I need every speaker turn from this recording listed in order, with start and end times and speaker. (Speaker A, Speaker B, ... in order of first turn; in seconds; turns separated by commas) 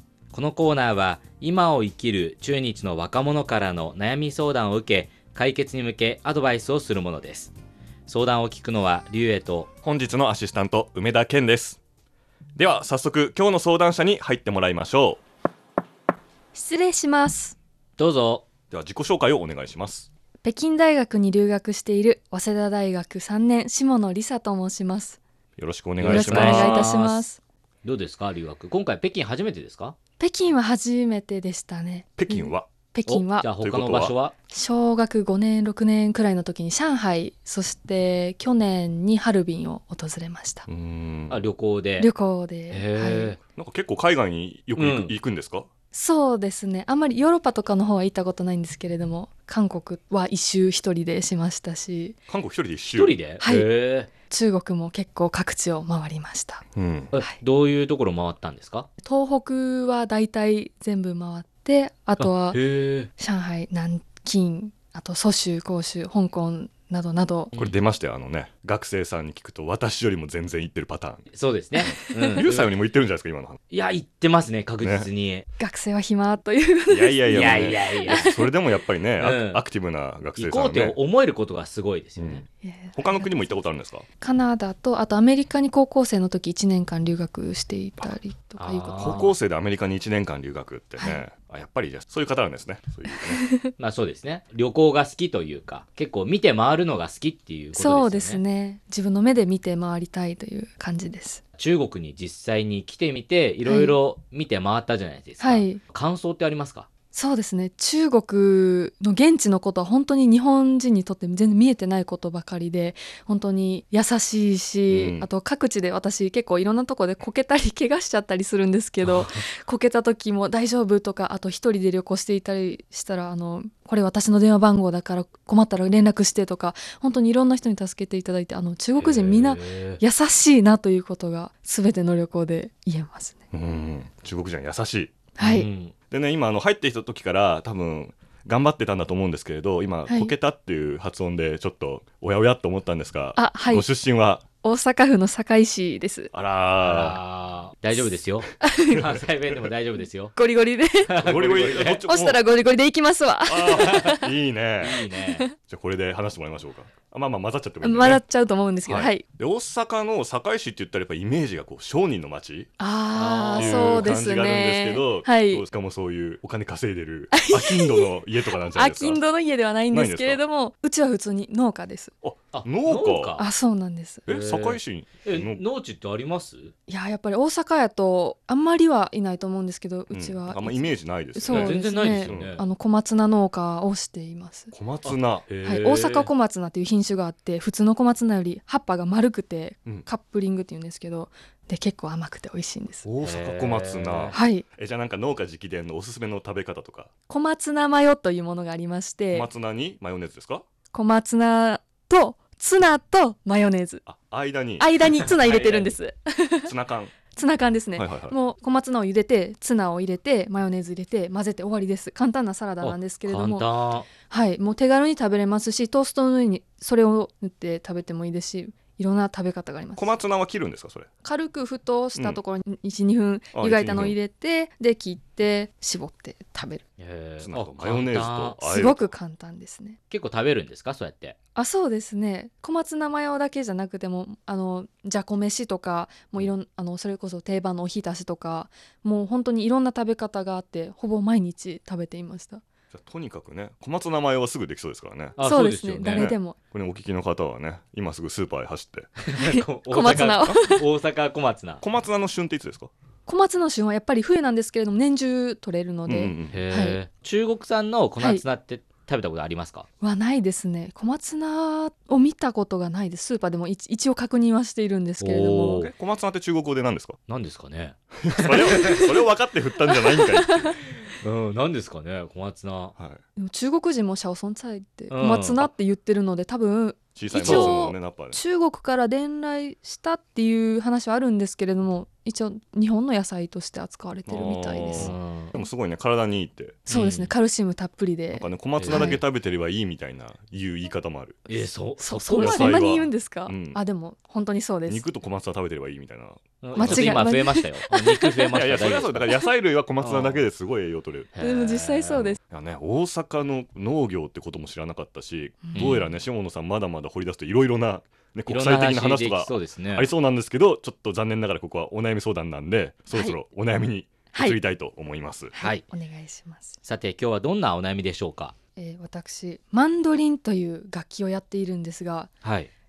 Speaker A: 0.3-7.5, Speaker A: 8.1-9.7, Speaker B: 9.8-11.8, Speaker B: 12.6-15.2, Speaker C: 16.5-17.6, Speaker A: 18.0-18.4, Speaker B: 18.7-20.1, Speaker C: 20.4-25.2, Speaker B: 25.6-26.9, Speaker A: 26.0-27.3, Speaker C: 26.1-27.4, Speaker A: 27.8-29.9, Speaker C: 30.2-33.5, Speaker B: 32.2-32.7, Speaker A: 33.0-34.3, Speaker B: 33.6-34.1, Speaker C: 34.5-40.7, Speaker B: 40.7-41.4, Speaker A: 41.3-42.1, Speaker C: 42.0-43.3, Speaker A: 42.7-43.4, Speaker B: 43.5-45.7, Speaker A: 44.7-45.1, Speaker C: 45.9-52.2, Speaker B: 52.3-53.2, Speaker A: 52.9-54.1, Speaker C: 53.4-56.6, Speaker B: 56.8-57.1, Speaker A: 57.1-58.9, Speaker C: 59.0-67.5, Speaker A: 62.2-63.1, Speaker B: 67.5-73.6, Speaker A: 71.3-72.7, Speaker A: 73.7-75.5, Speaker B: 74.8-75.1, Speaker C: 75.6-78.5, Speaker B: 76.9-81.0, Speaker A: 77.3-78.3, Speaker A: 79.2-79.6, Speaker A: 80.4-82.4, Speaker B: 82.2-84.0, Speaker C: 82.6-83.6, Speaker C: 84.2-89.2, Speaker A: 88.6-89.3, Speaker B: 89.0-93.4, Speaker C: 91.0-91.2, Speaker C: 93.3-93.7, Speaker A: 93.8-98.4, Speaker C: 97.7-101.4, Speaker A: 101.6-106.9, Speaker C: 103.6-104.0, Speaker C: 105.4-105.8, Speaker C: 107.1-133.4, Speaker B: 114.9-115.3, Speaker A: 119.0-119.4, Speaker A: 129.0-130.0, Speaker B: 133.5-135.1, Speaker C: 135.3-135.7, Speaker A: 135.4-135.9, Speaker B: 136.1-144.4, Speaker C: 140.1-140.3, Speaker C: 143.3-143.8, Speaker C: 144.6-146.3, Speaker B: 146.3-147.2, Speaker A: 146.8-150.3, Speaker C: 148.6-149.1, Speaker B: 148.9-149.7, Speaker C: 150.3-151.1, Speaker A: 151.0-152.0, Speaker B: 151.2-152.4, Speaker C: 152.0-154.3, Speaker B: 153.4-155.0, Speaker A: 153.8-154.1, Speaker A: 154.8-155.4, Speaker C: 155.0-155.5, Speaker B: 155.7-158.2, Speaker C: 157.8-159.2, Speaker B: 158.8-162.7, Speaker C: 162.8-165.6, Speaker A: 163.1-164.1, Speaker B: 163.6-169.2, Speaker C: 167.3-172.1, Speaker B: 169.9-170.4, Speaker B: 172.2-173.4, Speaker A: 172.5-173.5, Speaker C: 173.4-174.3, Speaker B: 174.3-175.6, Speaker A: 174.3-176.7, Speaker C: 176.9-184.7, Speaker B: 180.1-182.5, Speaker A: 181.5-182.6, Speaker B: 184.7-185.5, Speaker A: 185.0-186.3, Speaker C: 185.6-193.1, Speaker B: 193.0-197.1, Speaker A: 193.2-194.4, Speaker C: 194.3-194.6, Speaker C: 197.3-199.5, Speaker B: 199.3-200.6, Speaker C: 200.9-204.1, Speaker B: 204.1-204.9, Speaker C: 204.8-206.7, Speaker A: 205.1-205.9, Speaker B: 206.6-207.1, Speaker C: 207.3-213.7, Speaker B: 207.9-208.3, Speaker A: 212.8-214.1, Speaker C: 214.2-220.2, Speaker B: 219.9-221.1, Speaker C: 221.2-226.8, Speaker B: 222.1-222.4, Speaker B: 223.5-224.2, Speaker A: 227.0-228.6, Speaker B: 227.4-229.1, Speaker C: 228.6-230.0, Speaker A: 230.1-231.3, Speaker C: 231.5-242.6, Speaker B: 242.9-245.4, Speaker A: 245.4-246.3, Speaker C: 245.4-246.6, Speaker B: 246.1-249.1, Speaker A: 249.2-251.8, Speaker C: 249.3-250.8, Speaker B: 250.1-250.6, Speaker B: 251.8-252.9, Speaker C: 253.3-257.0, Speaker B: 256.1-256.6, Speaker A: 256.5-259.9, Speaker C: 260.0-265.9, Speaker A: 265.2-265.9, Speaker B: 265.8-267.2, Speaker A: 267.3-269.0, Speaker B: 268.2-270.9, Speaker C: 268.8-269.2, Speaker C: 269.9-270.9, Speaker A: 271.2-272.9, Speaker C: 273.4-285.7, Speaker A: 275.1-275.7, Speaker B: 277.1-278.4, Speaker A: 277.4-277.8, Speaker B: 284.2-286.8, Speaker A: 284.9-285.5, Speaker C: 286.9-289.2, Speaker A: 286.9-287.3, Speaker B: 288.3-291.4, Speaker A: 288.8-289.2, Speaker A: 291.5-292.8, Speaker C: 292.0-295.1, Speaker B: 292.4-293.8, Speaker B: 294.9-297.3, Speaker A: 296.6-299.3, Speaker C: 296.7-298.4, Speaker B: 298.5-301.3, Speaker A: 300.0-300.4, Speaker A: 301.3-302.4, Speaker C: 301.4-302.4, Speaker B: 302.5-315.6, Speaker C: 305.6-305.9, Speaker A: 305.7-306.1, Speaker A: 308.5-310.1, Speaker C: 313.1-313.4, Speaker C: 314.3-314.6, Speaker C: 315.5-316.8, Speaker A: 315.6-315.9, Speaker A: 316.8-318.5, Speaker C: 318.8-322.3, Speaker A: 322.4-322.7